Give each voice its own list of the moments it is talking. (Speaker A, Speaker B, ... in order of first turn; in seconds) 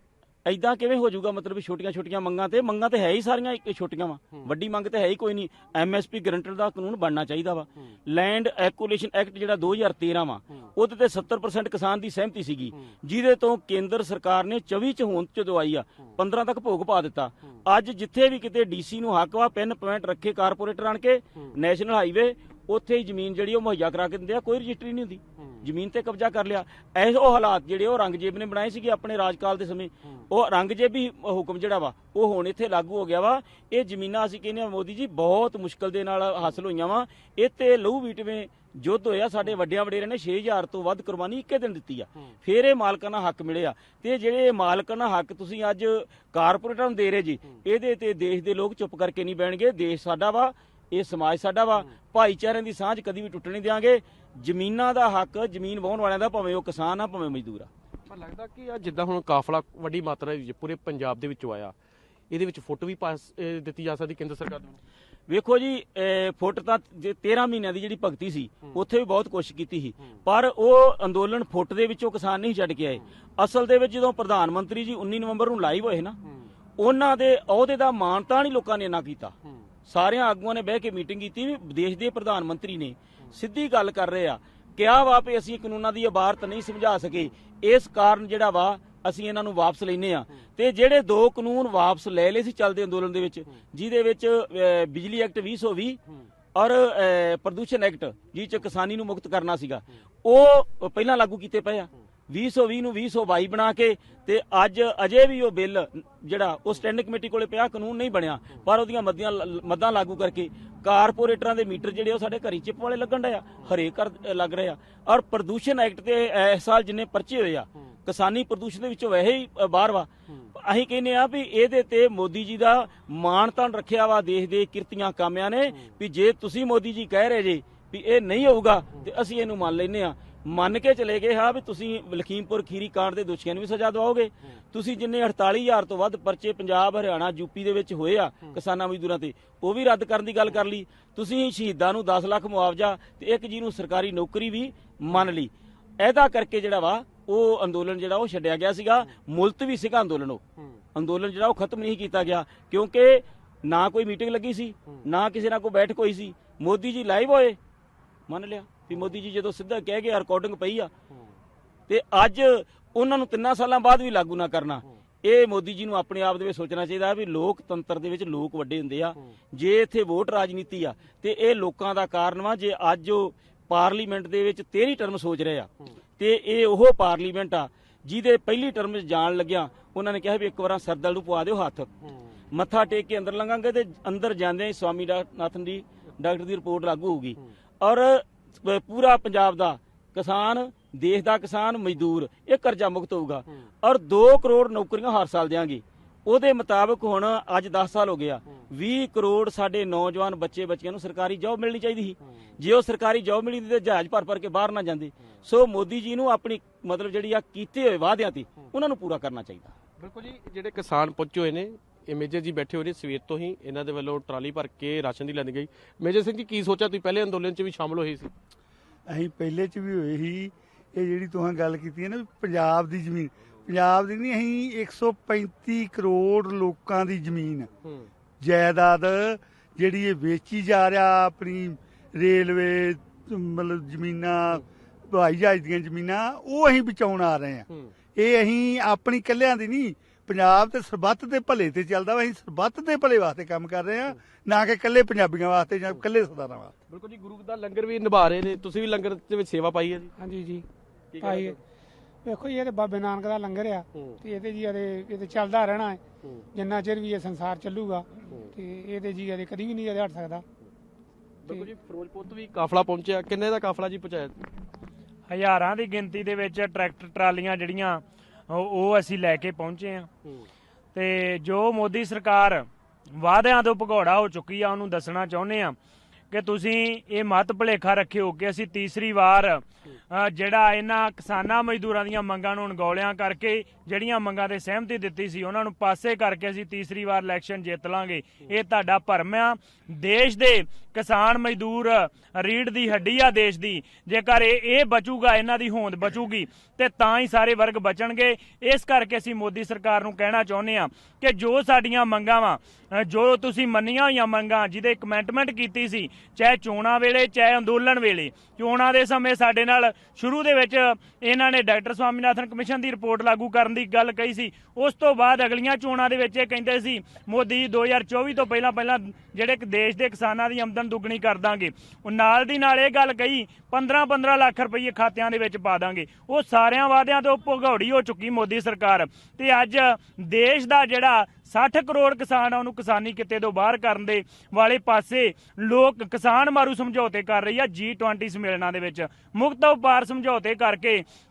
Speaker A: 0.5-57.7, 65.3-76.2, 76.8-79.3, 79.9-96.0, 96.5-150.4, 150.9-157.6, 158.3-160.9, 161.9-181.9, 182.5-209.8
Speaker B: 58.1-61.7, 62.3-64.8, 210.0-218.3, 227.8-228.1, 246.9-250.1, 251.1-251.6, 261.4-264.3
Speaker C: 219.1-227.7, 228.4-246.7
Speaker D: 250.2-250.7, 251.2-251.6, 252.2-256.0, 256.5-260.4
Speaker E: 265.3-270.1, 270.9-275.8, 276.3-341.0